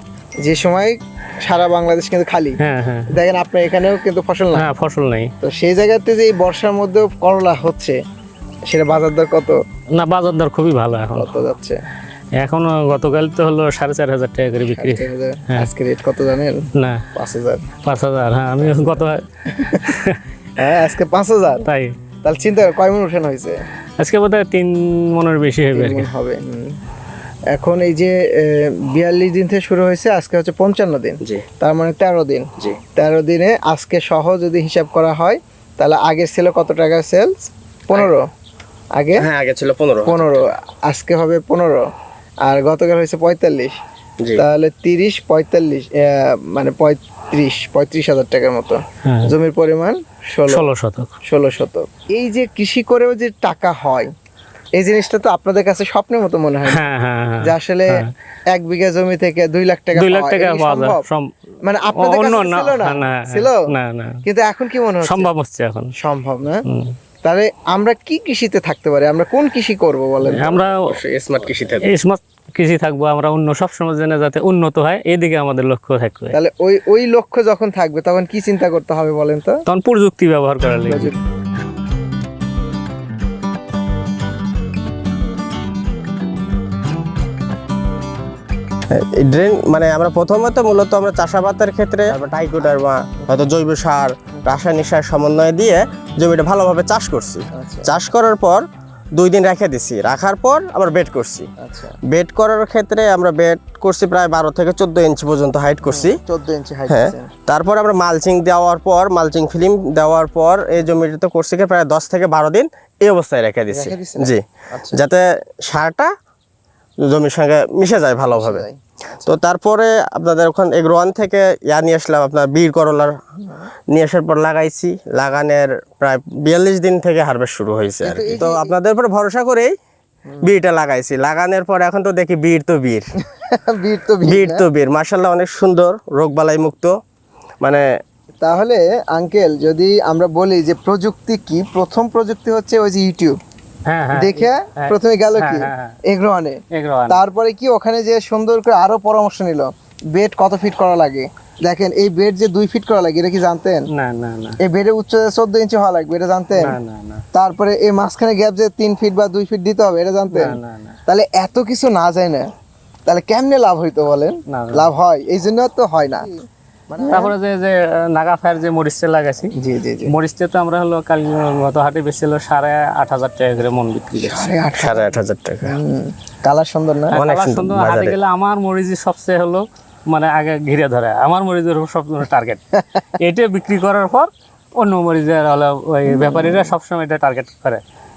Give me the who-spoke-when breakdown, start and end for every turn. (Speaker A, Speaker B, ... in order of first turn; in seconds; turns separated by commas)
Speaker A: 0.4-2.6, Speaker B: 2.6-3.1, Speaker A: 3.1-4.7, Speaker B: 4.5-5.3, Speaker A: 5.4-8.0, Speaker A: 8.7-9.6, Speaker B: 9.9-11.3, Speaker A: 11.1-11.8, Speaker B: 12.4-15.7, Speaker A: 14.6-16.6, Speaker B: 16.8-17.0, Speaker A: 17.1-17.7, Speaker B: 17.8-19.2, Speaker A: 18.6-20.0, Speaker B: 19.8-20.2, Speaker A: 20.6-21.6, Speaker B: 21.6-21.9, Speaker A: 22.2-23.6, Speaker B: 24.0-26.1, Speaker A: 25.7-26.8, Speaker A: 27.5-38.2, Speaker A: 38.9-39.2, Speaker C: 39.2-40.4, Speaker A: 40.0-41.9, Speaker A: 42.5-43.7, Speaker A: 44.4-50.6, Speaker B: 49.0-49.3, Speaker B: 50.5-51.1, Speaker A: 51.2-54.1, Speaker A: 54.7-56.8, Speaker B: 56.6-58.1, Speaker A: 57.4-58.0, Speaker A: 58.5-61.0, Speaker B: 59.9-61.3, Speaker A: 61.6-63.7, Speaker B: 62.0-64.2, Speaker A: 64.2-65.3, Speaker B: 65.0-65.9, Speaker A: 66.0-66.6, Speaker B: 66.7-67.0, Speaker A: 67.2-70.7, Speaker B: 70.2-70.8, Speaker C: 70.8-71.9, Speaker B: 71.8-76.4, Speaker A: 76.3-79.6, Speaker B: 79.7-81.1, Speaker A: 80.8-81.2, Speaker C: 88.9-98.6, Speaker A: 97.5-98.0, Speaker C: 99.2-101.5, Speaker A: 101.6-102.0, Speaker C: 102.1-106.2, Speaker A: 105.8-107.3, Speaker C: 106.9-116.1, Speaker A: 113.7-115.0, Speaker C: 117.0-118.7, Speaker A: 118.2-119.3, Speaker C: 119.2-123.2, Speaker C: 123.9-129.7, Speaker A: 128.0-128.8, Speaker C: 130.4-133.1, Speaker A: 133.2-134.7, Speaker C: 134.2-136.9, Speaker A: 138.4-143.4, Speaker B: 143.8-145.9, Speaker A: 144.1-153.9, Speaker B: 146.7-147.2, Speaker B: 153.9-154.6, Speaker A: 154.6-156.8, Speaker B: 156.6-157.2, Speaker A: 157.3-162.5, Speaker B: 160.3-161.0, Speaker A: 163.1-167.3, Speaker B: 164.5-164.9, Speaker B: 167.1-169.5, Speaker A: 169.6-170.2, Speaker B: 170.1-174.5, Speaker A: 174.2-177.2, Speaker C: 174.7-175.8, Speaker B: 177.1-182.6, Speaker C: 177.1-178.2, Speaker A: 182.7-183.1, Speaker B: 183.2-187.8, Speaker A: 186.1-186.7